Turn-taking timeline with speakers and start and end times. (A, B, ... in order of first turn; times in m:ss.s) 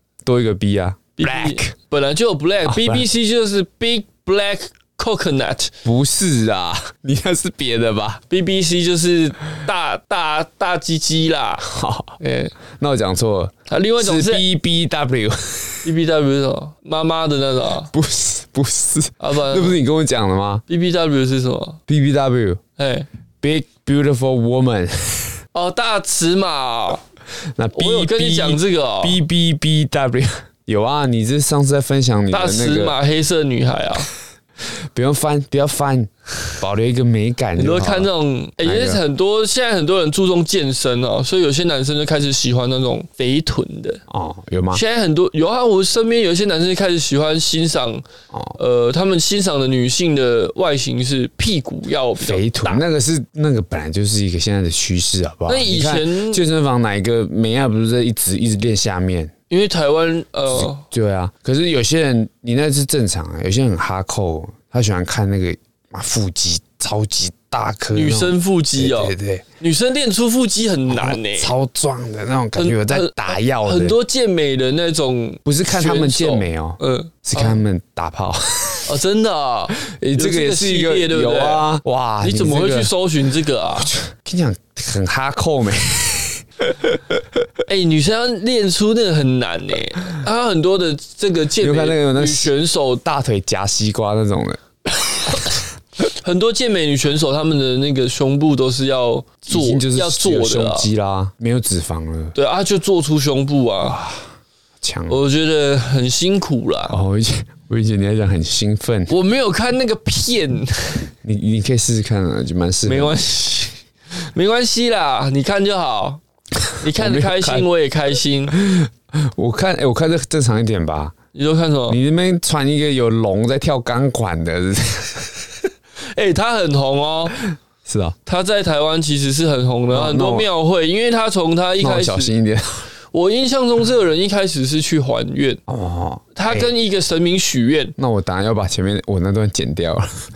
0:00.2-0:01.7 A
0:01.2-0:05.7 B
0:02.6-0:03.0 A
0:05.8-0:08.2 A
0:08.3-0:11.6 B
0:11.6-0:12.2 A
0:12.2-0:12.5 B
0:12.7-0:15.8 A
0:13.7-0:14.4 B
0:15.8-0:17.9 B
0:17.9-0:20.6 A
0:19.2-0:19.8 B
0:20.7-0:21.8 B
0:21.9-0:22.6 A
0:22.8-0:23.1 B
0:23.4-0:25.4 A
0:25.5-0:27.0 B
0:27.6-0:33.0 A
0:27.7-0:29.2 B
0:32.3-0:34.1 B
0:34.9-0:38.1 A
0:37.6-0:44.0 B
0:38.6-0:39.0 A
0:44.1-0:44.8 A
0:44.7-0:48.0 B
0:48.3-0:48.6 A
0:48.6-0:52.8 B
0:52.2-0:59.3 A
0:55.5-0:56.4 B
0:59.5-1:00.8 B
1:00.5-1:09.4 A
1:07.9-1:11.5 B
1:10.9-1:14.0 A
1:12.6-1:17.6 B
1:15.4-1:18.9 A
1:18.8-1:21.7 B
1:19.9-1:22.9 A
1:22.2-1:23.9 B
1:23.8-1:26.4 A
1:27.7-1:33.0 B
1:31.6-1:32.5 A
1:33.0-1:34.6 A
1:35.3-1:35.6 B
1:36.1-1:40.9 B
1:39.5-1:42.3 A
1:42.3-1:44.0 B
1:43.8-1:44.2 A
1:44.8-1:45.2 A
1:45.1-1:46.9 B
1:46.9-1:49.1 A
1:49.1-1:51.1 B
1:51.2-1:53.2 A
1:52.8-1:56.2 B
1:56.8-1:58.5 B
1:56.8-1:57.7 A
1:58.5-2:01.1 A
2:01.3-2:02.0 B
2:01.9-2:05.2 A
2:06.1-2:07.4 B
2:07.8-2:08.2 A
2:08.2-2:12.3 B
2:09.9-2:10.5 A
2:11.8-2:12.8 A
2:13.1-2:15.6 B
2:15.7-2:16.7 A
2:16.3-2:17.9 B
2:18.0-2:20.2 A